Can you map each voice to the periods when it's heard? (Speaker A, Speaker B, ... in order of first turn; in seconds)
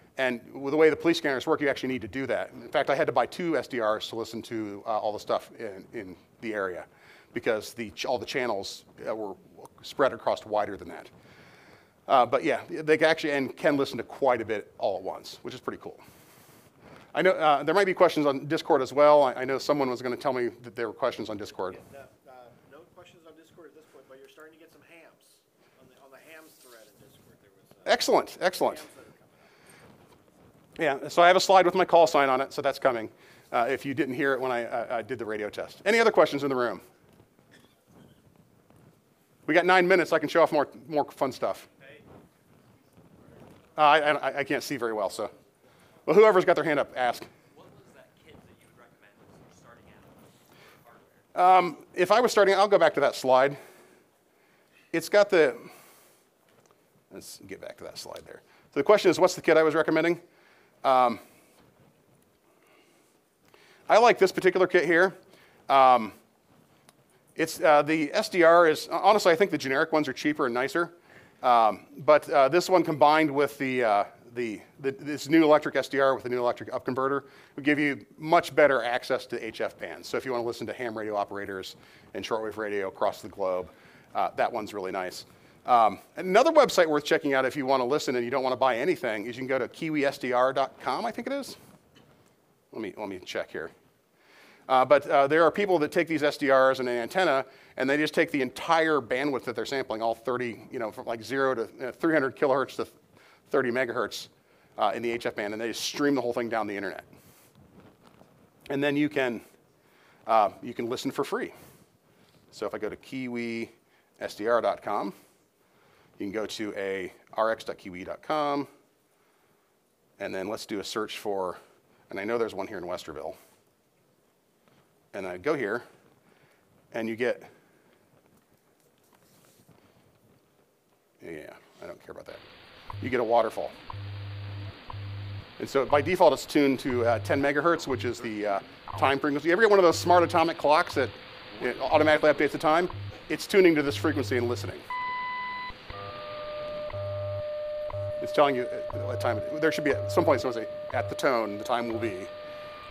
Speaker A: 0.2-11.1, 12.1-16.0, 17.1-21.8, 27.8-28.8, 30.8-36.8, 39.5-41.6, 43.8-45.3, 46.0-47.3, 51.3-53.6, 54.9-55.7, 57.1-60.2, 60.8-61.2, 63.9-65.2, 65.7-66.1, 67.3-91.5, 92.7-93.7, 94.7-102.9, 103.5-107.1, 108.7-109.4, 110.2-111.5, 112.5-115.1, 116.2-118.7, 120.2-123.4, 125.1-125.8, 126.9-127.5, 131.2-132.4, 133.0-133.7, 135.6-144.8, 148.2-152.3
Speaker B: 21.7-29.5
Speaker C: 41.6-42.0, 42.9-43.6, 47.5-51.2